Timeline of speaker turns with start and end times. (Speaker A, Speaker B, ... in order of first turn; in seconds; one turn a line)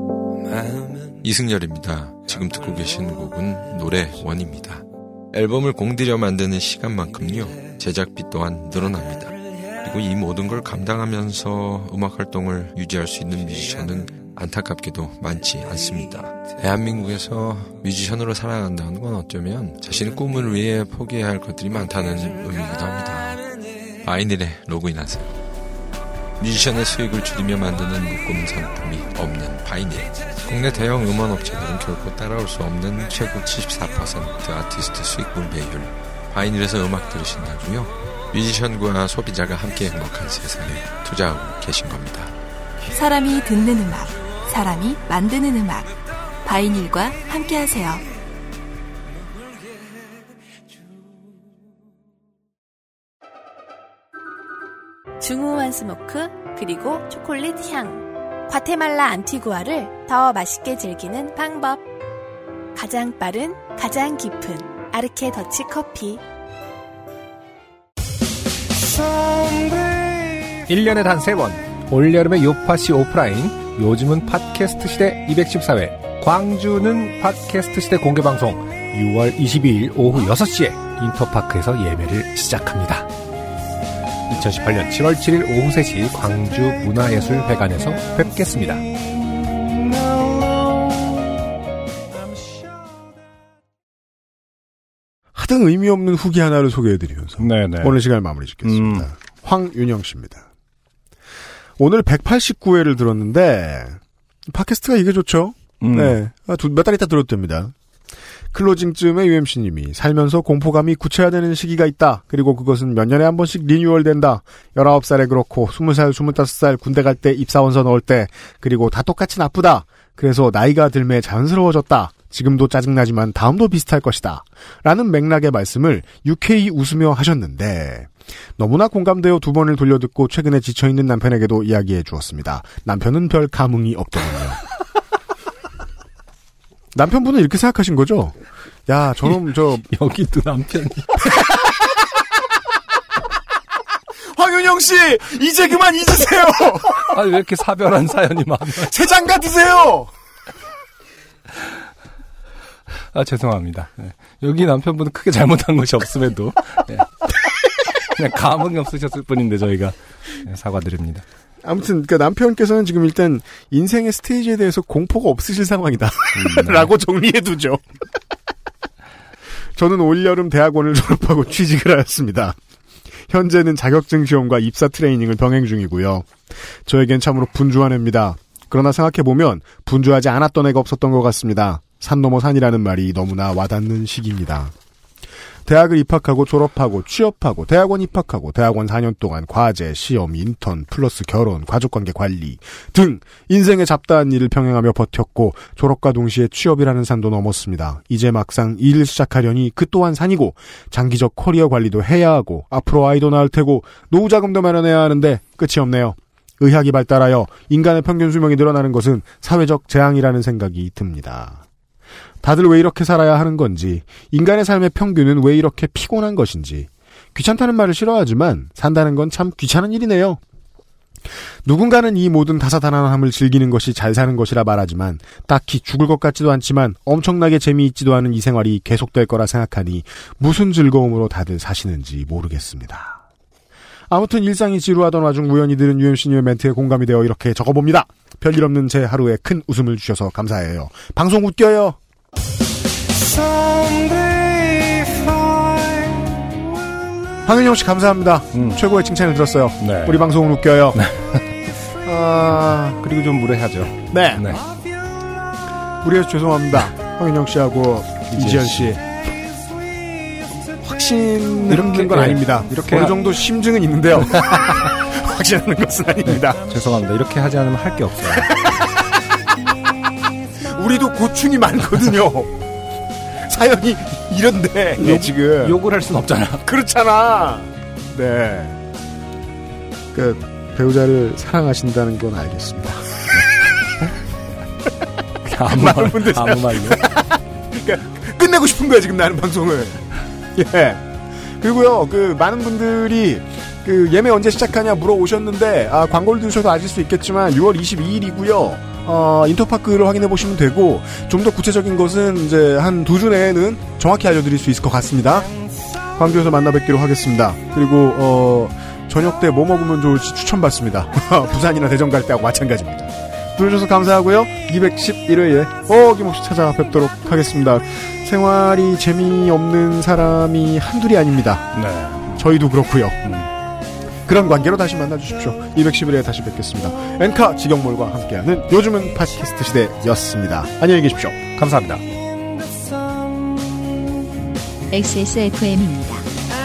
Speaker A: 0.5-23.4
Speaker A: 24.0-25.4
Speaker A: 26.4-42.3
Speaker B: 42.9-45.9
Speaker B: 46.4-48.0
Speaker C: 55.2-61.9
Speaker C: 62.7-66.2
Speaker D: 70.5-83.1
Speaker D: 84.3-88.8
Speaker E: 95.3-100.5
Speaker D: 97.4-98.0
Speaker D: 98.6-99.1
Speaker E: 101.8-107.7
Speaker D: 105.8-106.2
Speaker E: 108.5-134.6
Speaker E: 136.9-139.8
Speaker D: 139.9-141.3
Speaker E: 144.3-147.1
Speaker D: 147.0-148.9
Speaker E: 148.8-150.1
Speaker D: 153.1-157.1
Speaker D: 158.1-161.2
Speaker E: 161.6-167.8
Speaker D: 166.4-166.9
Speaker E: 169.8-172.6
Speaker E: 173.3-184.7
Speaker E: 185.7-211.6
Speaker E: 212.4-220.4
Speaker E: 221.6-233.2
Speaker E: 234.1-242.0
Speaker D: 243.8-245.3
Speaker E: 247.4-251.0
Speaker D: 248.5-248.8
Speaker D: 249.8-250.2
Speaker D: 250.9-251.4
Speaker E: 252.0-253.0
Speaker D: 252.9-254.6
Speaker E: 254.1-254.6
Speaker E: 256.0-259.0
Speaker D: 258.3-258.9
Speaker E: 260.8-266.6
Speaker D: 261.7-263.1
Speaker D: 266.3-268.5
Speaker E: 268.6-268.9
Speaker E: 270.6-272.6
Speaker E: 273.4-275.8
Speaker D: 275.0-276.6
Speaker E: 276.6-278.8
Speaker E: 280.1-283.1
Speaker D: 285.4-287.1
Speaker E: 285.6-291.1
Speaker E: 291.6-305.5
Speaker E: 306.1-321.8
Speaker D: 321.7-322.4
Speaker E: 322.3-323.3
Speaker E: 324.2-331.4
Speaker D: 331.6-332.0
Speaker B: 334.9-336.2